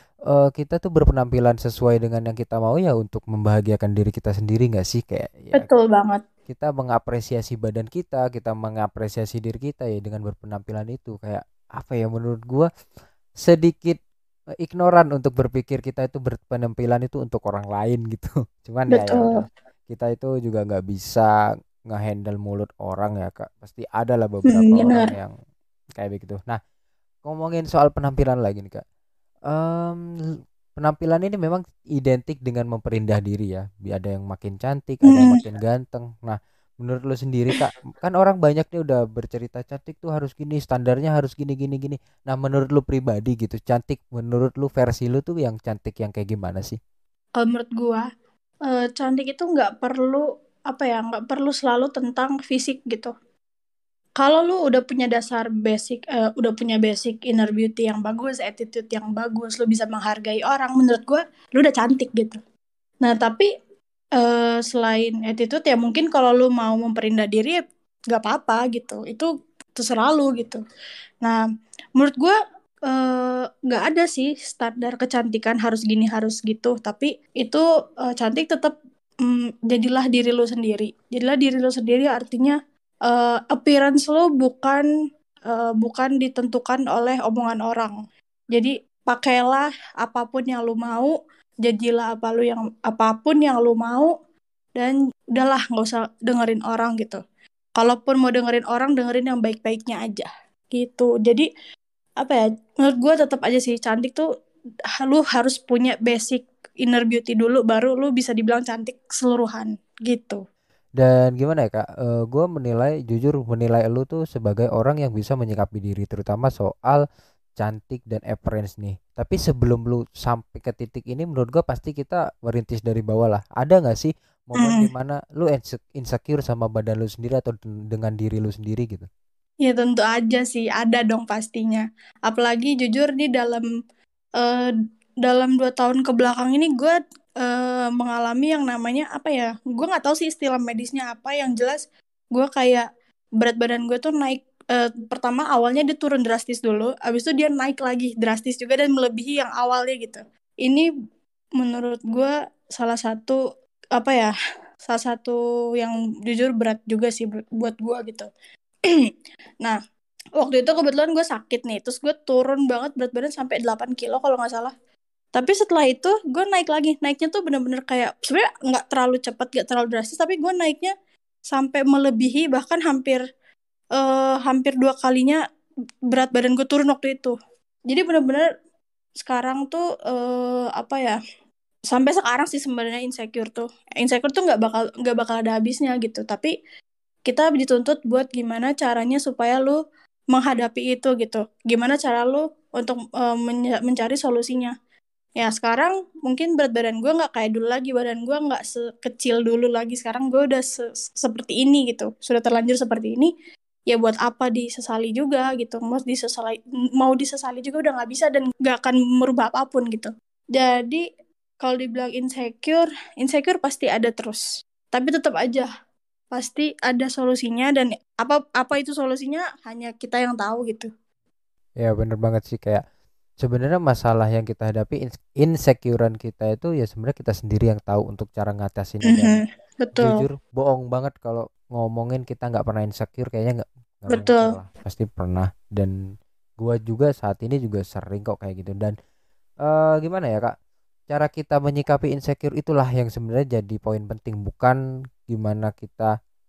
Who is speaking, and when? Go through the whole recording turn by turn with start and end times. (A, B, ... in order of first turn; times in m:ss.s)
0:00.3-0:05.7 A
0:05.5-0:06.2 B
0:06.5-0:12.7 A
0:13.4-0:14.0 A
0:14.6-0:21.3 A
0:18.9-0:19.4 B
0:21.9-0:25.3 A
0:24.5-0:25.1 B
0:26.0-0:26.6 A
0:27.2-0:28.8 A
0:29.5-0:30.1 A
0:30.8-0:46.8 A
0:35.0-0:35.4 B
0:47.4-0:48.0 B
0:48.7-0:53.1 B
0:54.2-1:02.4 B
1:03.0-1:03.5 B
1:04.2-1:07.6 B
1:08.1-1:10.6 B
1:12.0-1:12.4 B
1:12.9-1:18.7 B
1:19.2-1:22.6 B
1:23.1-1:24.9 B
1:25.5-1:27.9 B
1:28.5-1:34.1 B
1:34.8-1:37.2 B
1:37.8-1:41.5 B
1:42.2-1:44.3 B
1:45.0-1:50.4 B
1:51.0-1:57.0 A
1:57.6-2:09.1 A
2:04.6-2:04.9 B
2:09.6-2:13.6 B
2:14.4-2:14.7 B
2:15.2-2:22.8 B
2:23.4-2:30.9 B
2:31.6-2:33.4 B
2:34.0-2:34.3 B
2:34.9-2:38.3 B
2:40.4-2:44.7 B
2:45.3-2:50.9 B
2:51.5-2:53.2 B
2:54.0-2:55.4 B
2:56.1-2:57.3 B
2:57.9-2:58.5 B
2:59.2-3:01.2 B
3:01.9-3:06.5 B
3:07.3-3:09.8 B
3:10.3-3:14.7 B
3:15.4-3:23.3 B
3:23.9-3:31.0 B
3:31.6-3:35.7 B
3:36.3-3:40.9 B
3:41.8-3:42.8 A
3:43.4-3:49.4 A
3:49.1-3:50.2 B
3:49.9-3:55.9 A
3:54.1-3:54.5 B
3:56.6-3:58.9 A
3:59.6-4:00.5 A
4:01.1-4:06.1 A